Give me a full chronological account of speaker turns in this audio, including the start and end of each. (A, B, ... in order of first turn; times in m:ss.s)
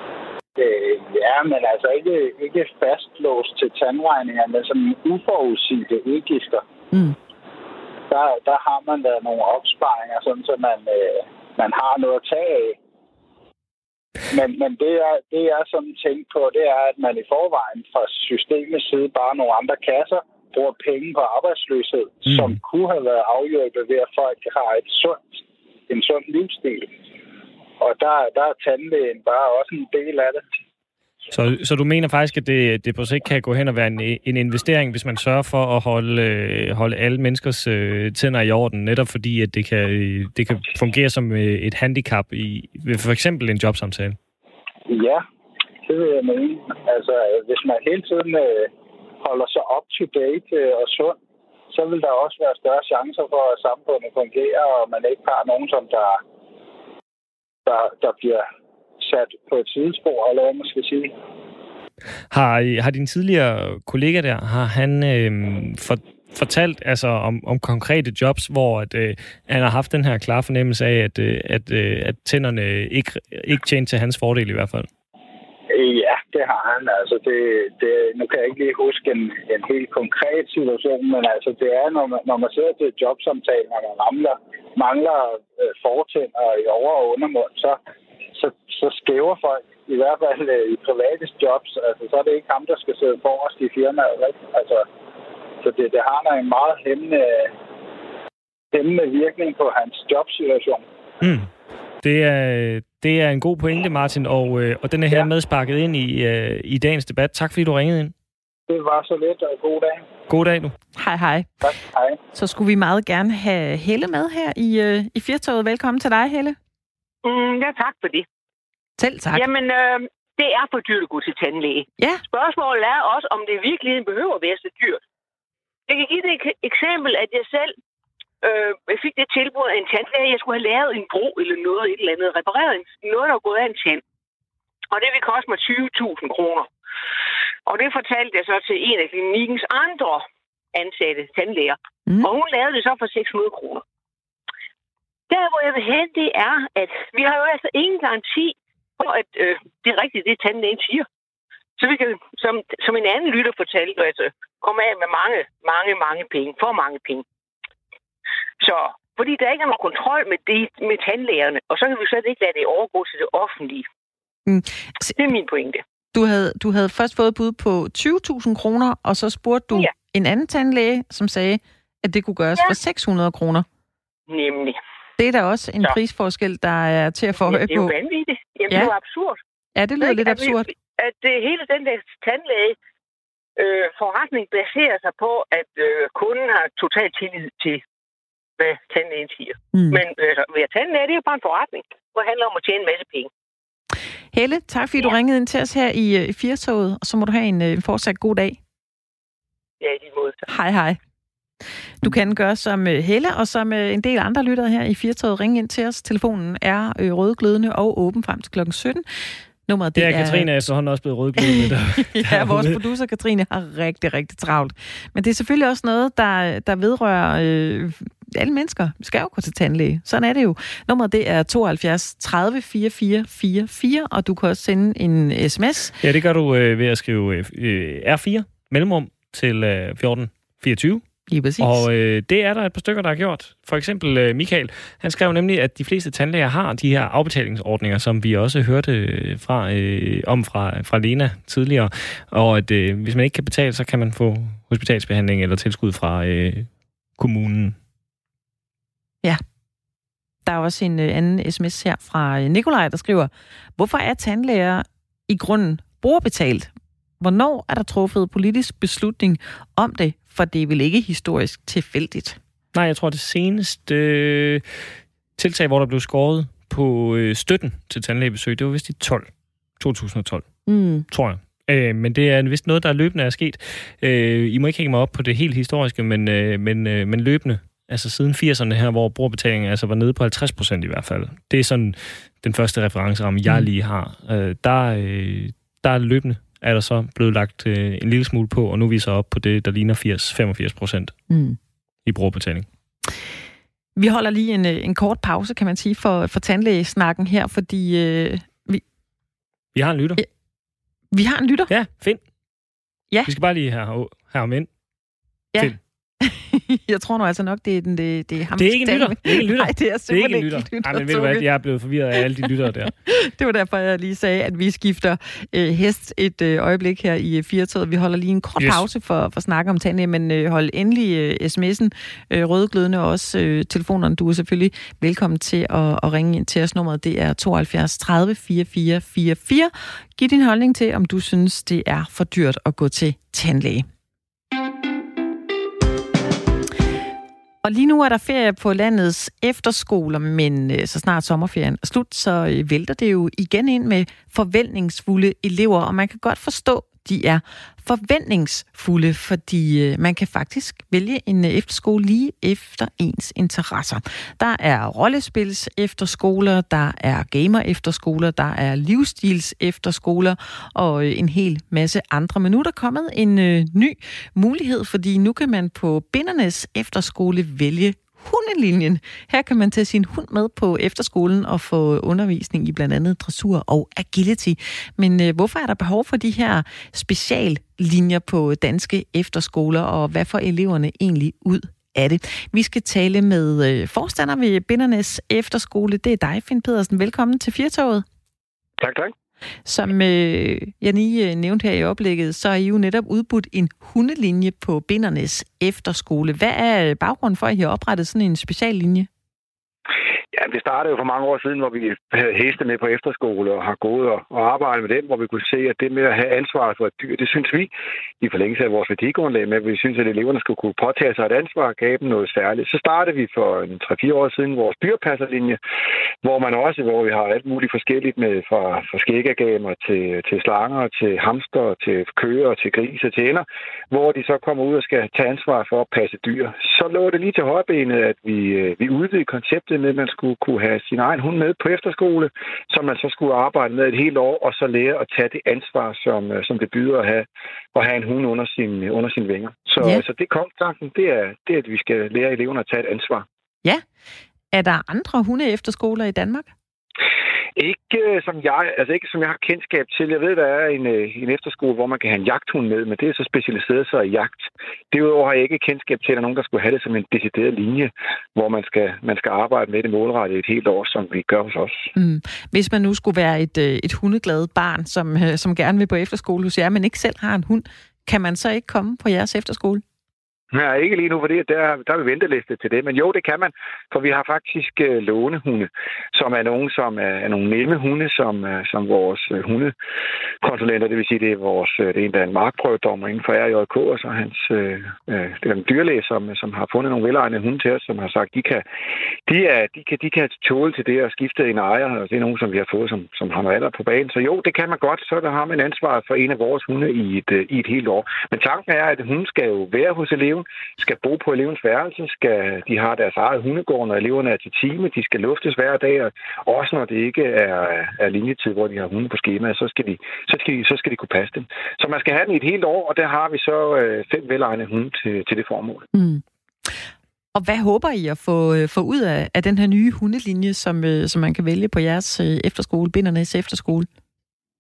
0:00.6-0:06.6 A
0:08.1-0:12.8 A
0:14.3-0:26.9 A
0:27.8-0:30.5 A
0:31.3-0:44.2 B
0:44.9-0:45.2 A
0:45.9-0:48.7 A
0:49.2-0:51.2 A
0:51.7-0:56.2 A
0:57.7-0:58.5 A
0:59.0-1:01.2 A
1:02.3-1:14.9 B
1:15.7-1:27.8 A
1:28.4-1:34.9 A
1:35.6-1:37.5 A
1:38.7-1:40.8 A
1:41.2-1:41.5 B
1:42.0-1:48.1 B
1:48.7-1:50.1 A
1:50.3-1:50.7 B
1:51.0-1:51.5 C
1:51.6-1:52.2 A
1:52.4-1:56.6 C
1:57.2-1:58.3 D
1:59.0-1:59.5 C
1:59.3-2:05.0 D
2:05.9-2:07.8 D
2:08.4-2:14.0 D
2:14.9-2:16.7 D
2:17.7-2:23.8 D
2:25.3-2:31.1 D
2:31.8-2:37.2 D
2:38.6-2:43.9 D
2:44.5-2:45.2 C
2:45.2-2:45.8 D
2:46.1-2:53.7 C
2:54.3-2:54.8 D
2:55.2-2:57.9 C
2:57.5-2:59.4 D
2:59.8-3:00.7 C
3:00.0-3:02.8 D
3:03.6-3:07.8 D
3:08.6-3:13.3 D
3:09.7-3:10.0 C
3:14.3-3:18.6 C
3:19.8-3:20.4 D
3:20.5-3:21.0 C
3:22.0-3:29.0 C
3:29.7-3:30.5 C
3:30.0-3:32.8 B
3:31.4-3:46.0 C
3:46.0-3:51.0 B
3:51.3-3:51.9 C
3:51.6-4:07.8 B
4:10.5-4:16.7 C
4:17.2-4:22.4 C
4:22.7-4:24.6 B
4:25.4-4:30.5 B
4:30.7-4:31.1 C
4:31.1-4:51.2 B
4:51.3-4:51.6 C
4:52.1-4:52.7 B
4:54.0-4:58.8 C
4:59.8-5:00.2 B
5:01.1-5:01.7 C
5:01.7-5:02.2 B
5:03.3-5:04.7 B
5:05.5-5:11.5 C
5:08.6-5:12.9 B
5:13.1-5:33.9 C
5:18.6-5:18.8 B
5:37.6-6:28.0 C
6:28.8-6:29.1 E
6:29.7-6:39.1 C
6:40.3-6:55.6 E
6:56.2-7:23.2 E
7:24.5-7:26.5 C
7:27.6-7:41.9 E
7:42.0-7:49.8 C
7:50.5-7:59.7 E
8:00.4-8:08.7 E
8:09.3-8:35.9 E
8:35.9-8:36.7 C
8:37.4-8:43.9 C